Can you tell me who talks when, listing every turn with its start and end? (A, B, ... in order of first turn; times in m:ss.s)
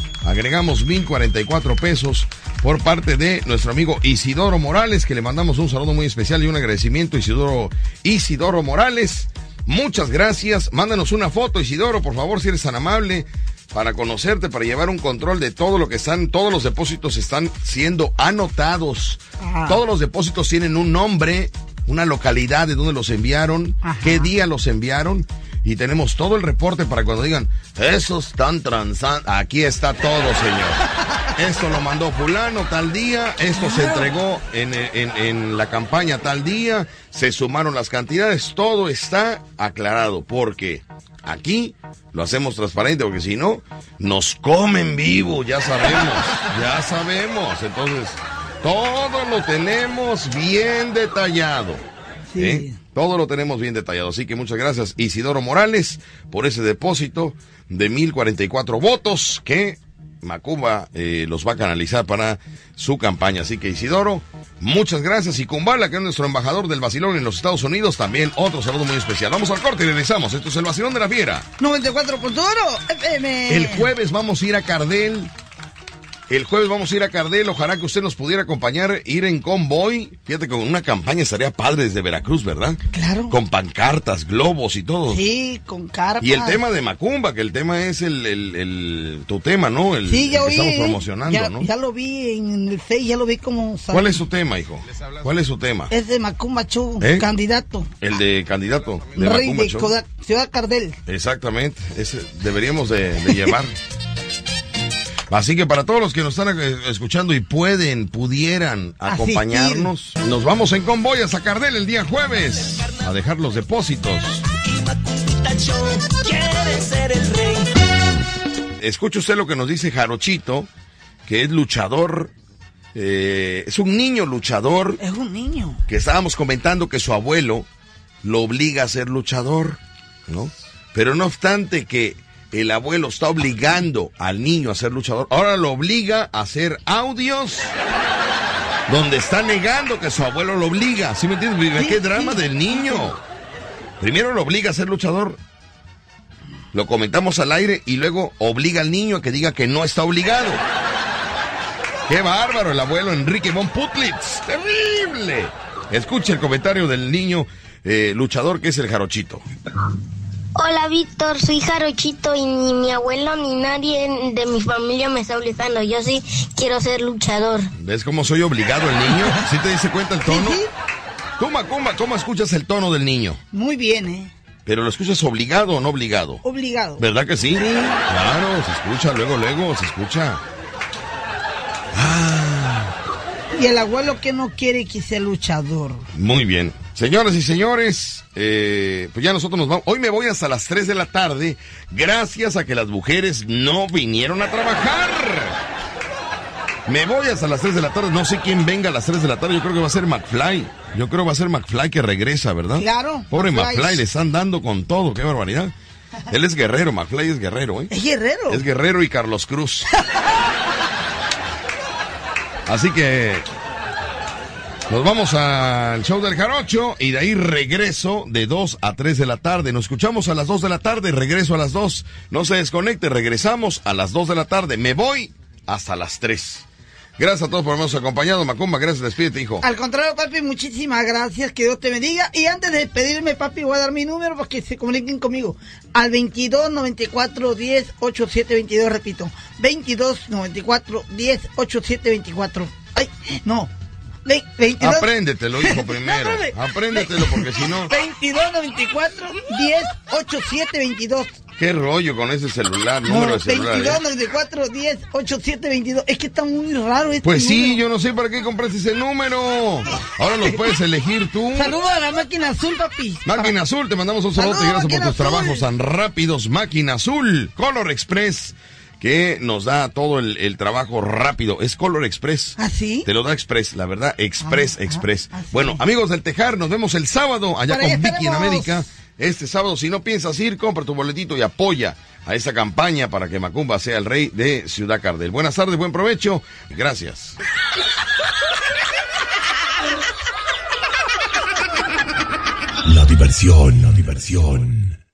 0:00.2-0:30.8 A
0:19.4-0:19.8 B
0:23.8-0:24.3 B
0:31.3-0:51.8 A
0:33.5-0:34.1 B
0:52.3-0:52.8 B
0:52.4-1:11.4 A
1:11.6-1:13.9 B
1:13.5-1:15.3 A
1:16.3-1:25.2 A
1:22.9-1:23.4 B
1:25.1-1:26.6 B
1:26.2-1:31.7 A
1:30.0-1:34.2 B
1:33.9-1:35.9 A
1:35.9-1:37.9 B
1:37.0-1:37.3 A
1:38.0-1:39.9 A
1:39.2-1:41.0 B
1:41.0-1:43.7 A
1:43.3-1:43.5 B
1:45.3-1:54.5 A
1:49.0-1:49.9 B
1:58.8-2:00.7 A
2:01.3-2:02.3 A
2:02.9-2:05.0 A
2:05.0-2:05.8 B
2:05.9-2:07.6 A
2:08.2-2:17.7 A
2:18.9-2:23.2 A
2:21.7-2:23.1 B
2:24.0-2:25.4 A
2:26.7-2:30.6 A
2:32.1-2:39.4 A
2:40.6-2:47.7 C
2:47.8-2:50.6 A
2:49.1-2:49.4 B
2:50.2-2:50.7 B
2:51.4-2:53.4 A
2:53.5-2:54.3 B
2:54.6-2:56.4 A
2:56.4-2:58.0 B
2:57.0-3:00.4 A
3:01.9-3:02.9 A
3:03.5-3:06.1 B
3:06.1-3:15.6 A
3:16.9-3:25.7 A
3:22.7-3:24.0 B
3:26.3-3:27.9 A
3:27.9-3:28.6 B
3:28.5-3:29.9 A
3:29.9-3:30.5 B
3:32.7-3:33.5 A
3:34.9-3:46.6 A
3:47.2-3:49.6 A
3:49.6-4:03.7 B
4:04.2-4:11.4 B
4:04.8-4:07.9 A
4:11.6-4:14.0 A
4:13.0-4:17.8 B
4:17.2-4:21.7 A
4:21.5-4:23.6 B
4:23.2-4:47.3 A
4:24.3-4:25.6 B
4:32.6-4:33.1 B
4:34.4-4:35.8 B
4:37.7-4:38.8 B
4:52.8-4:55.0 D